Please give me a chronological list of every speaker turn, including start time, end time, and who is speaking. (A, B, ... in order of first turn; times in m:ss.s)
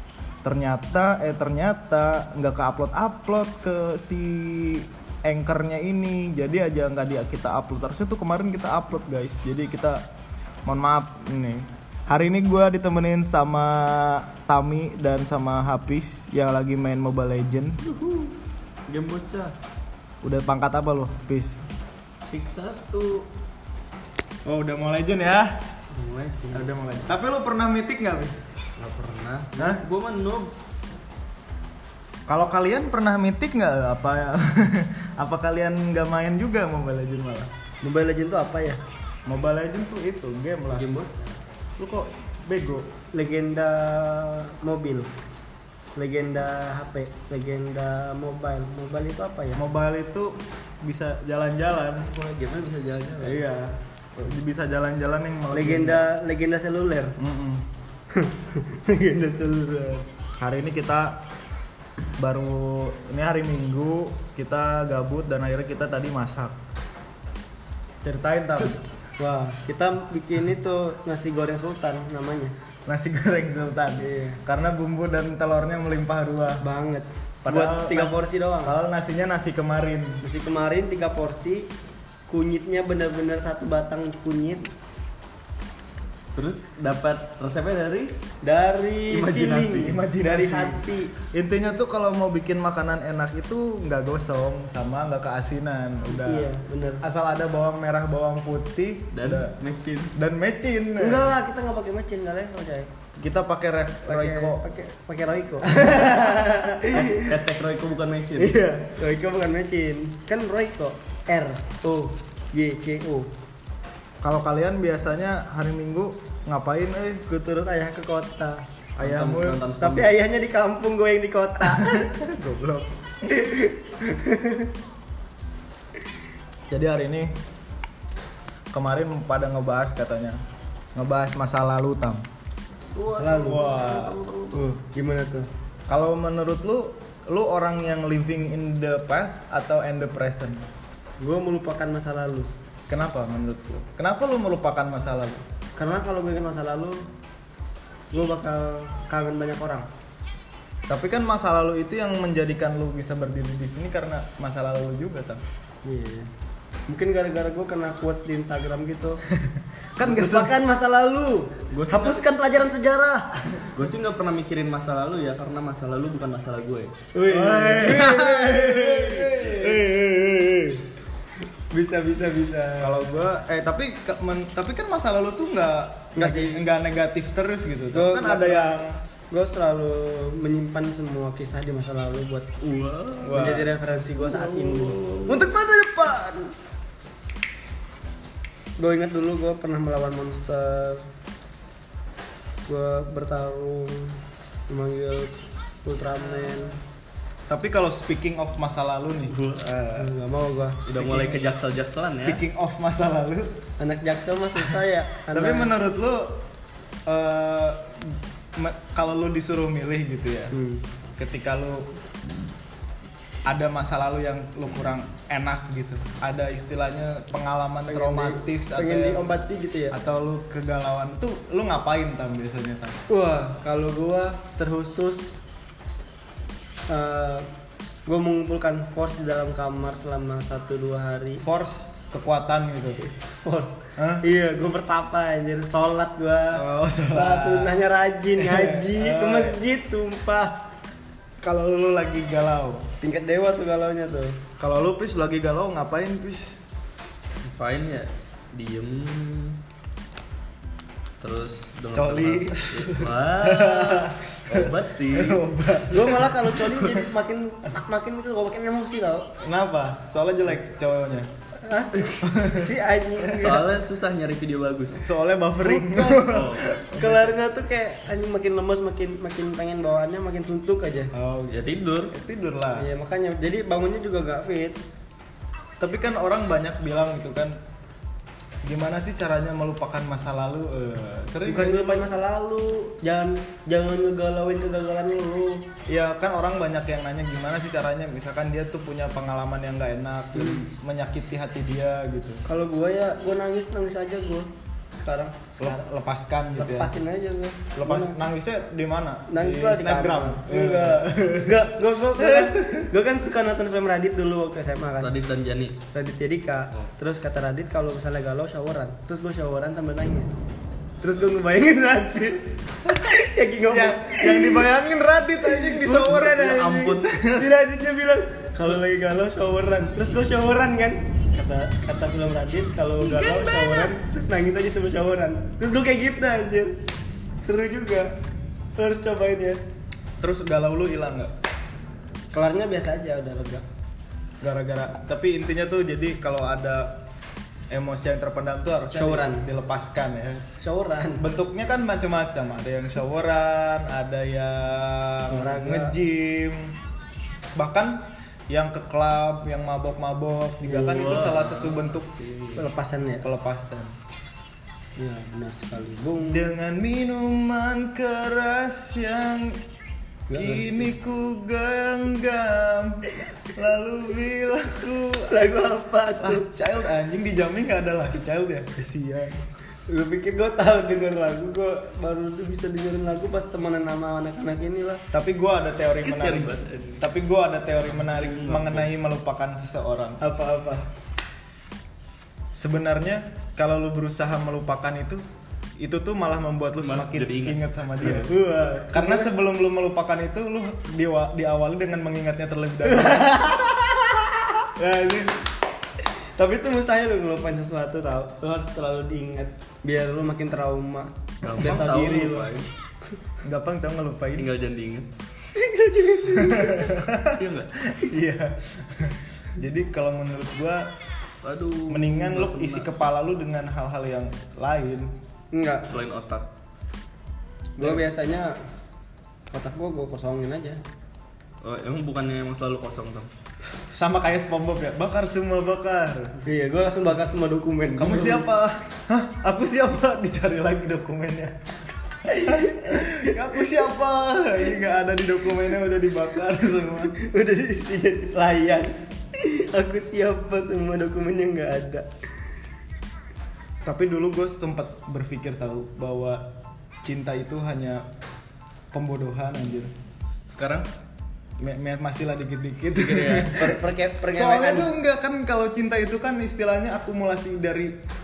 0:00.4-0:10.0 A
0:10.6-0:17.8 A
0:17.8-0:18.4 B
0:18.9-0:19.5 B
0:20.2-0:21.6 A
0:22.3-0:23.3 B
0:24.4-0:25.6 A
0:25.9-0:26.7 B
0:26.5-0:28.4 A
0:28.8-0:30.5 B
0:29.6-0:29.8 A
0:32.3-0:37.5 A
0:37.8-0:38.8 C
0:39.3-0:40.9 A
0:40.7-0:41.2 B
0:41.8-0:42.9 A
0:43.1-0:45.1 C
0:46.0-0:49.6 C
0:49.5-0:52.1 A
0:52.1-0:53.4 B
0:53.2-0:56.1 A
0:55.5-0:57.2 C
0:57.2-0:57.6 A
0:58.1-1:00.0 C
1:00.4-1:01.2 A
1:02.2-1:06.6 A
1:08.0-1:08.8 A
1:09.2-1:12.5 C
1:12.9-1:16.6 A
1:14.0-1:14.4 C
1:16.6-1:18.8 C
1:17.4-1:20.2 A
1:20.2-1:21.7 C
1:22.3-1:24.7 C
1:26.3-1:28.1 B
1:28.4-1:31.1 C
1:29.1-1:29.9 B
1:29.5-1:36.5 A
1:36.1-1:37.0 C
1:37.0-1:39.6 A
1:39.1-1:40.1 B
1:40.1-1:41.3 A
1:41.0-1:42.9 C
1:43.2-1:44.6 A
1:44.1-1:47.3 C
1:45.6-1:46.4 A
1:46.9-1:48.6 B
1:48.4-1:53.3 C
1:54.2-1:57.4 A
1:57.3-1:58.6 C
1:59.0-1:59.6 A
1:59.0-2:00.2 B
1:59.8-2:02.1 C
2:01.6-2:02.9 A
2:03.3-2:04.7 C
2:06.7-2:07.3 A
2:08.7-2:10.4 A
2:10.9-2:12.2 A
2:12.9-2:14.6 B
2:13.1-2:13.8 C
2:13.4-2:14.2 A
2:14.5-2:15.5 C
2:15.9-2:20.6 A
2:21.2-2:22.5 C
2:22.9-2:25.4 A
2:25.8-2:27.0 C
2:28.1-2:29.9 C
2:30.9-2:35.4 A
2:35.8-2:36.3 C
2:36.9-2:39.2 C
2:39.4-2:40.5 A
2:40.0-2:43.7 C
2:41.7-2:42.2 B
2:43.7-2:46.9 B
2:47.1-2:49.8 C
2:47.3-2:50.8 A
2:51.7-2:53.0 C
2:52.8-2:59.0 A
2:56.1-2:56.6 C
2:57.9-2:58.8 C
2:59.3-3:02.6 C
3:02.6-3:03.6 B
3:03.2-3:03.7 A
3:03.3-3:05.0 C
3:04.2-3:05.5 B
3:05.2-3:06.5 A
3:08.8-3:11.0 C
3:12.6-3:16.8 C
3:17.5-3:19.4 A
3:19.3-3:20.1 B
3:19.9-3:21.1 C
3:20.8-3:22.4 B
3:21.0-3:21.4 A
3:22.2-3:23.6 A
3:23.8-3:25.7 C
3:25.3-3:26.4 A
3:27.1-3:30.6 A
3:30.5-3:30.8 C
3:31.2-3:31.9 A
3:33.5-3:39.4 A
3:37.9-3:40.0 C
3:39.9-3:43.0 A
3:43.1-3:45.4 C
3:46.9-3:47.5 C
3:48.0-3:51.4 C
3:51.4-3:53.0 A
3:53.4-4:00.6 C
3:54.0-3:54.2 A
3:56.5-3:59.6 A
4:01.4-4:02.8 A
4:03.0-4:04.4 C
4:04.6-4:06.6 A
4:07.4-4:09.6 B
4:11.2-4:15.4 B
4:11.9-4:17.0 A
4:15.9-4:19.3 C
4:19.4-4:21.3 A
4:21.6-4:23.7 C
4:22.2-4:23.6 A
4:23.3-4:25.1 B
4:25.0-4:27.4 A
4:25.6-4:26.3 C
4:26.2-4:26.7 B
4:26.9-4:31.1 C
4:31.1-4:32.9 A
4:31.5-4:32.1 B
4:32.8-4:34.8 C
4:35.8-4:37.6 A
4:38.6-4:42.1 A
4:41.4-4:45.6 C
4:45.9-4:52.4 A
4:50.3-4:50.6 C
4:52.4-4:55.8 C
4:55.6-4:56.9 A
4:56.6-4:58.2 C
4:57.8-5:02.9 A
4:59.3-5:05.1 C
5:05.0-5:05.8 B
5:05.9-5:10.3 C
5:11.0-5:14.7 C
5:13.7-5:17.5 A
5:15.4-5:26.8 C
5:16.0-5:17.0 B
5:23.0-5:23.9 B
5:27.4-5:28.1 C
5:28.8-5:29.6 C
5:30.2-5:31.3 A
5:32.3-5:33.6 C
5:34.4-5:37.0 A
5:37.7-5:40.4 A
5:38.9-5:39.4 C
5:40.6-5:41.3 C
5:41.2-5:46.8 A
5:45.3-5:46.0 C
5:47.5-5:52.1 A
5:50.7-5:52.6 B
5:50.8-5:51.3 C
5:52.5-5:53.3 C
5:53.2-5:53.9 A
5:55.0-5:56.5 C
5:56.2-5:59.6 A
6:00.3-6:00.9 C
6:00.3-6:05.4 A
6:05.3-6:06.5 C
6:06.2-6:09.4 A
6:09.9-6:15.0 C
6:15.1-6:20.2 A
6:16.0-6:17.1 B
6:17.9-6:18.9 B
6:20.2-6:20.9 C
6:22.5-6:25.2 A
6:25.8-6:28.4 A
6:26.8-6:27.6 B
6:28.0-6:29.3 C
6:28.9-6:34.0 A
6:32.9-6:33.7 C
6:34.7-6:35.3 A
6:36.4-6:42.5 C
6:41.4-6:42.7 B
6:43.4-6:44.5 A
6:44.4-6:45.1 B
6:45.6-6:46.9 C
6:46.2-6:50.9 A
6:47.3-6:47.7 B
6:51.4-6:52.9 B
6:51.9-6:55.1 A
6:55.5-6:55.9 C
6:55.8-6:56.5 B
6:57.8-6:58.5 C
6:59.5-7:00.8 C
7:01.6-7:03.3 B
7:03.9-7:06.4 A
7:06.4-7:08.5 C
7:07.9-7:11.6 A
7:12.3-7:17.1 A
7:12.3-7:13.3 C
7:17.1-7:22.1 C
7:23.8-7:26.5 A
7:27.0-7:28.0 A
7:28.9-7:29.9 A
7:30.5-7:30.9 B
7:31.6-7:33.8 A
7:32.9-7:33.7 B
7:33.5-7:34.9 C
7:34.3-7:38.0 A